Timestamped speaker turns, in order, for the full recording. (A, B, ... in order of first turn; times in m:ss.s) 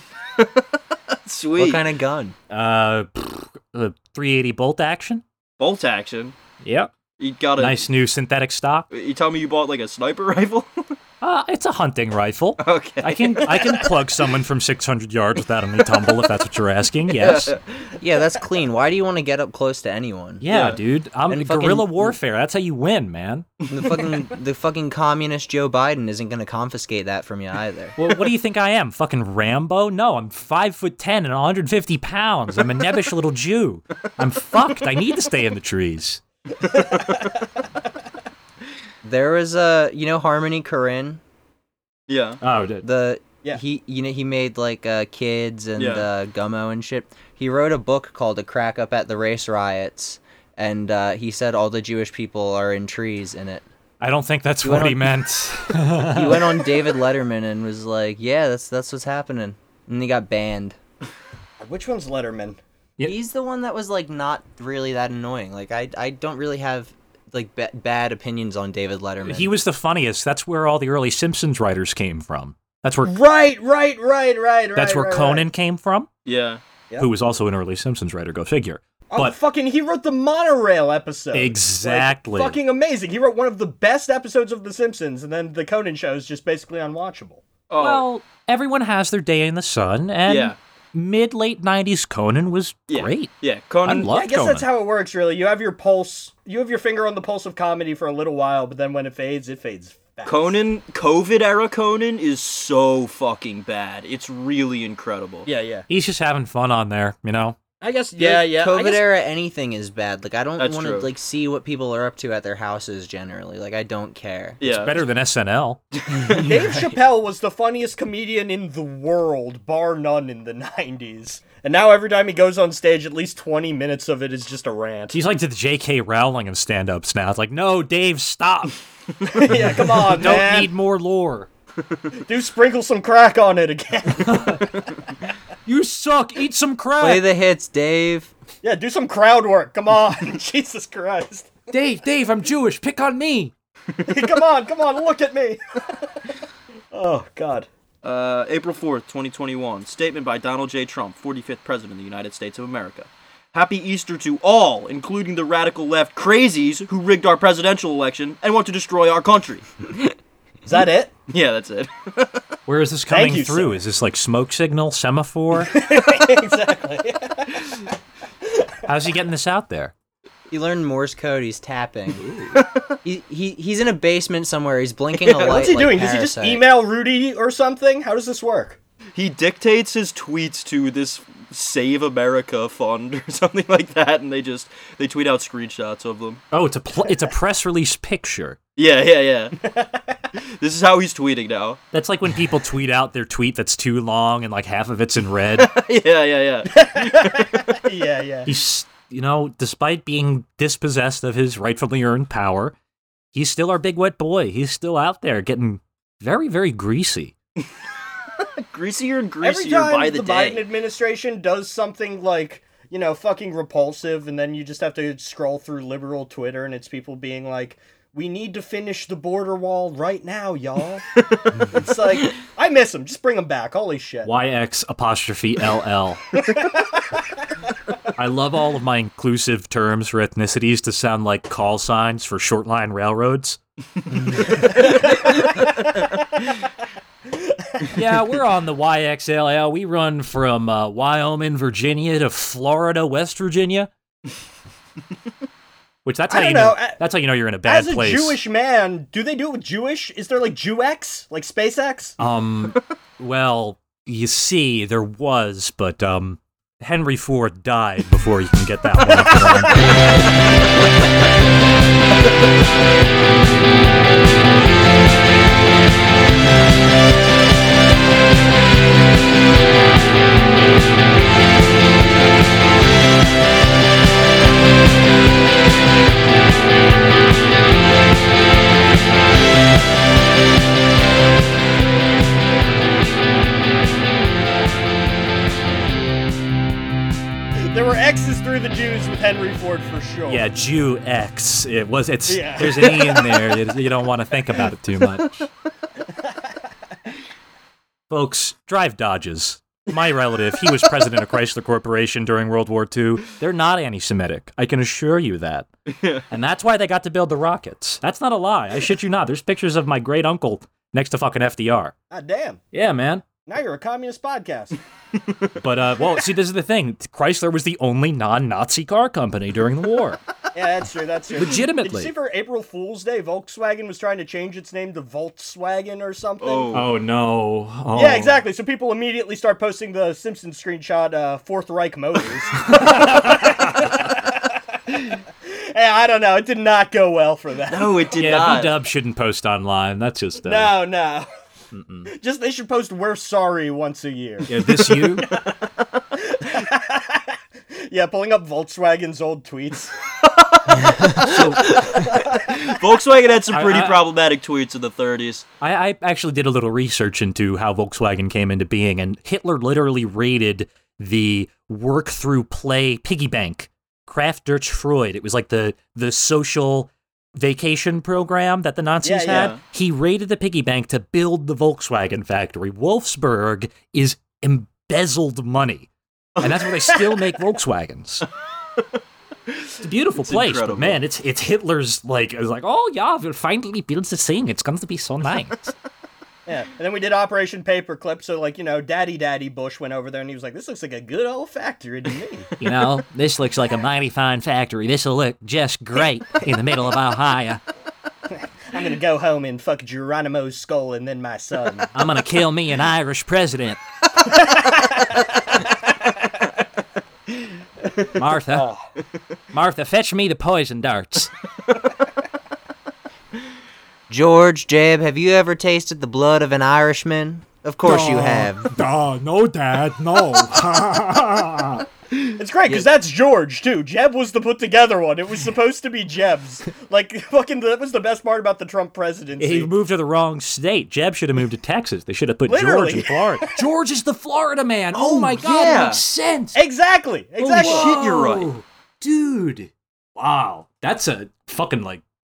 0:00.4-0:01.8 A
0:01.6-0:02.3 B
0:02.5-0:05.2 C
0:05.6-0:06.4 A
0:06.6-0:06.9 C
0:07.2-0:07.8 A
0:07.6-0:08.9 C
0:08.9-0:10.9 A
0:11.2-0:17.5 C
0:12.6-0:13.8 A
0:17.1-0:17.9 A
0:18.0-0:20.4 B
0:20.4-0:23.5 C
0:20.5-0:20.8 A
0:21.3-0:22.2 B
0:23.7-0:28.0 B
0:28.0-0:36.2 C
0:36.6-0:37.2 A
0:39.0-0:41.2 B
0:42.1-0:42.4 A
0:42.4-0:42.8 C
0:42.8-0:53.6 B
0:45.8-0:46.0 A
0:54.0-0:56.6 C
0:54.6-0:55.2 B
0:55.9-1:00.8 B
1:01.6-1:02.6 D
1:03.0-1:09.5 B
1:09.2-1:13.1 C
1:13.0-1:15.5 D
1:14.7-1:16.1 C
1:16.2-1:16.6 A
1:17.0-1:19.4 C
1:19.1-1:27.4 D
1:21.3-1:22.6 C
1:27.7-1:28.0 A
1:27.8-1:33.3 C
1:30.2-1:30.6 A
1:32.9-1:34.1 A
1:33.8-1:34.6 C
1:34.1-1:40.5 D
1:40.2-1:45.5 A
1:45.4-1:45.9 D
1:45.9-1:47.6 C
1:47.8-1:49.0 D
1:48.2-1:54.6 B
1:50.6-1:51.1 A
1:54.6-1:54.9 A
1:54.6-1:55.8 C
1:56.1-1:56.9 B
1:56.3-2:05.2 D
2:05.1-2:08.8 C
2:09.2-2:10.7 D
2:09.5-2:11.5 C
2:12.2-2:14.6 D
2:14.2-2:14.6 C
2:15.6-2:17.2 C
2:17.0-2:18.3 B
2:18.6-2:21.6 D
2:21.7-2:23.5 C
2:24.1-2:26.2 D
2:26.9-2:27.7 D
2:28.0-2:39.6 A
2:40.6-2:41.1 D
2:41.3-2:42.4 A
2:42.7-2:45.7 C
2:43.1-2:43.8 D
2:45.6-2:47.8 D
2:48.8-2:49.9 C
2:50.5-2:52.4 B
2:52.2-2:52.5 C
2:52.5-2:52.9 A
2:53.0-2:56.6 B
2:55.1-2:55.7 A
2:55.4-2:58.8 D
2:59.1-3:06.4 A
3:06.5-3:08.6 C
3:08.8-3:09.5 A
3:09.6-3:10.2 D
3:10.3-3:11.8 A
3:11.9-3:15.7 C
3:15.6-3:17.7 A
3:16.7-3:18.5 D
3:18.4-3:22.7 C
3:23.3-3:27.3 C
3:28.4-3:30.6 A
3:29.4-3:41.0 D
3:41.6-3:44.3 D
3:44.2-3:46.2 C
3:46.4-3:47.0 D
3:48.2-3:53.6 C
3:54.6-3:56.1 D
3:57.3-3:58.0 D
3:57.9-4:03.9 C
4:06.0-4:08.4 C
4:06.3-4:07.0 D
4:07.6-4:12.2 D
4:12.2-4:19.9 C
4:47.7-4:50.4 D
4:50.3-4:55.5 C
4:52.3-4:53.4 D
4:58.1-5:05.7 C
5:05.9-5:06.2 A
5:06.3-5:11.9 C
5:12.1-5:12.6 D
5:12.7-5:13.2 C
5:13.5-5:14.8 D
5:15.6-5:20.2 C
5:20.5-5:26.7 D
5:21.3-5:22.1 C
5:26.4-5:26.9 A
5:26.7-5:28.4 C
5:27.9-5:34.9 D
5:32.7-5:33.9 C
5:35.4-5:38.1 D
5:37.7-5:38.7 A
5:38.2-5:40.7 C
5:40.4-5:41.3 D
5:41.7-5:42.1 C
5:42.1-5:45.4 D
5:44.5-5:45.3 C
5:46.2-5:50.0 D
5:51.0-5:55.4 A
5:51.1-5:52.0 C
5:52.0-5:52.5 D
5:53.5-5:54.0 C
5:55.6-6:18.3 C
6:09.0-6:09.5 D
6:09.3-6:09.6 A
6:19.5-6:21.0 A
6:19.8-6:25.7 C
6:26.4-6:32.5 D
6:32.6-6:37.6 C
6:38.7-6:41.9 D
6:41.9-6:43.8 C
6:44.4-6:45.2 D
6:48.2-6:48.7 C
6:48.5-6:48.8 D
6:49.5-6:51.3 C
6:54.1-6:58.7 B
6:57.8-7:01.8 C
7:02.4-7:09.7 D
7:09.4-7:16.6 C
7:12.5-7:13.2 D
7:14.9-7:16.0 A
7:16.5-7:17.9 D
7:17.4-7:22.0 C
7:17.6-7:18.5 A